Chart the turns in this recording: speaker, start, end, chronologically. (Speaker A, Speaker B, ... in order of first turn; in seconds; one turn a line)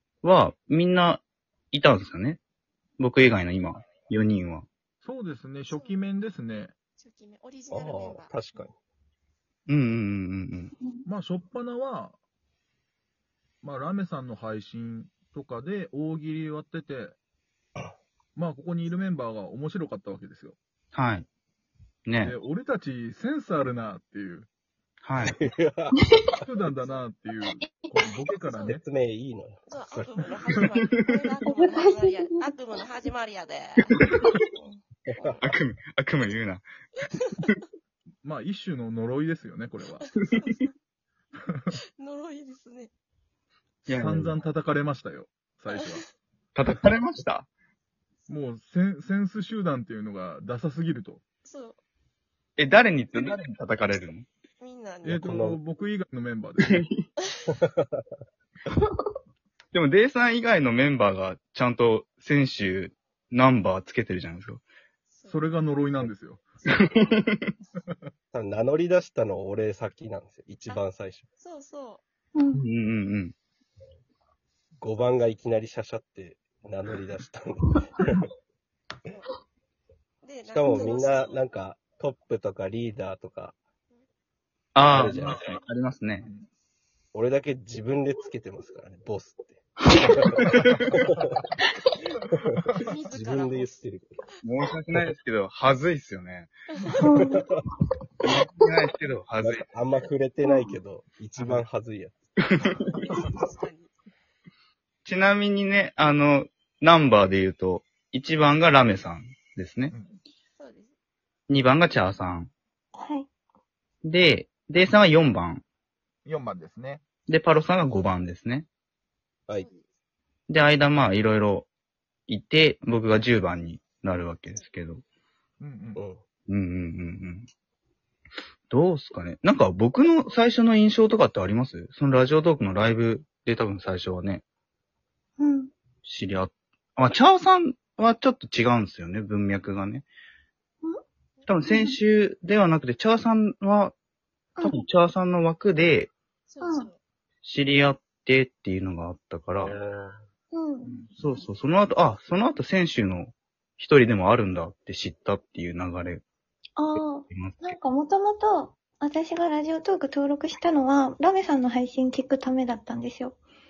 Speaker A: 0.2-2.4
Speaker A: 3.0-4.7
Speaker B: 5.0-6.7
Speaker C: 5.7-6.0
Speaker C: 7.0-8.4
Speaker D: 7.7-8.7
Speaker A: 9.7-10.7
Speaker B: 11.1-12.2
Speaker B: 13.6-17.1
Speaker B: 18.3-20.6
Speaker A: 20.9-21.3
Speaker A: 22.1-22.3
Speaker B: 22.2-24.5
Speaker A: 25.0-25.4
Speaker D: 25.2-25.9
Speaker B: 26.4-28.8
Speaker C: 26.8-27.0
Speaker E: 27.6-28.1
Speaker C: 28.3-28.8
Speaker D: 28.6-30.2
Speaker C: 29.7-33.9
Speaker E: 31.4-32.6
Speaker C: 34.5-35.4
Speaker A: 35.4-36.6
Speaker B: 38.2-40.0
Speaker C: 39.9-40.8
Speaker C: 42.0-42.9
Speaker B: 43.9-46.0
Speaker A: 43.9-44.3
Speaker A: 46.5-47.5
Speaker B: 48.3-51.2
Speaker C: 51.4-51.8
Speaker A: 52.6-54.3
Speaker C: 54.6-55.3
Speaker B: 55.0-56.8
Speaker D: 55.2-55.6
Speaker D: 57.8-58.0
Speaker A: 59.7-64.6
Speaker C: 65.1-65.6
Speaker B: 65.2-66.4
Speaker C: 66.6-67.6
Speaker A: 66.7-67.5
Speaker B: 67.8-68.1
Speaker D: 68.3-71.2
Speaker C: 71.4-72.0
Speaker E: 72.3-72.6
Speaker A: 72.5-73.3
Speaker D: 74.8-78.3
Speaker C: 79.0-79.3
Speaker C: 80.2-81.5
Speaker D: 80.5-83.6
Speaker A: 84.7-86.3
Speaker D: 84.8-85.4
Speaker C: 85.2-85.6
Speaker B: 86.2-86.5
Speaker D: 87.1-91.0
Speaker A: 90.4-90.9
Speaker C: 92.8-93.8
Speaker D: 93.1-94.1
Speaker A: 94.4-96.5
Speaker C: 96.7-97.2
Speaker E: 97.0-97.6
Speaker D: 97.2-97.6
Speaker A: 98.2-99.7
Speaker D: 99.4-102.2
Speaker E: 100.4-100.8
Speaker B: 101.4-101.6
Speaker C: 102.7-103.9
Speaker A: 105.0-109.9
Speaker B: 109.9-110.2
Speaker C: 110.5-110.9
Speaker A: 111.5-112.5
Speaker E: 112.9-113.3
Speaker A: 114.0-115.6
Speaker B: 116.2-117.1
Speaker A: 117.3-118.7
Speaker C: 119.5-119.9
Speaker A: 120.5-121.7
Speaker A: 122.3-125.0
Speaker B: 125.6-126.0
Speaker D: 125.9-126.2
Speaker A: 126.5-127.5
Speaker A: 128.7-134.4
Speaker E: 135.4-135.7
Speaker A: 136.0-140.1
Speaker A: 141.5-143.9
Speaker E: 141.6-141.9
Speaker A: 144.6-146.1
Speaker C: 146.5-147.0
Speaker E: 146.6-146.9
Speaker A: 147.4-149.7
Speaker D: 149.6-150.1
Speaker E: 150.5-151.0
Speaker A: 151.1-156.2
Speaker E: 156.8-163.4
Speaker A: 157.3-157.7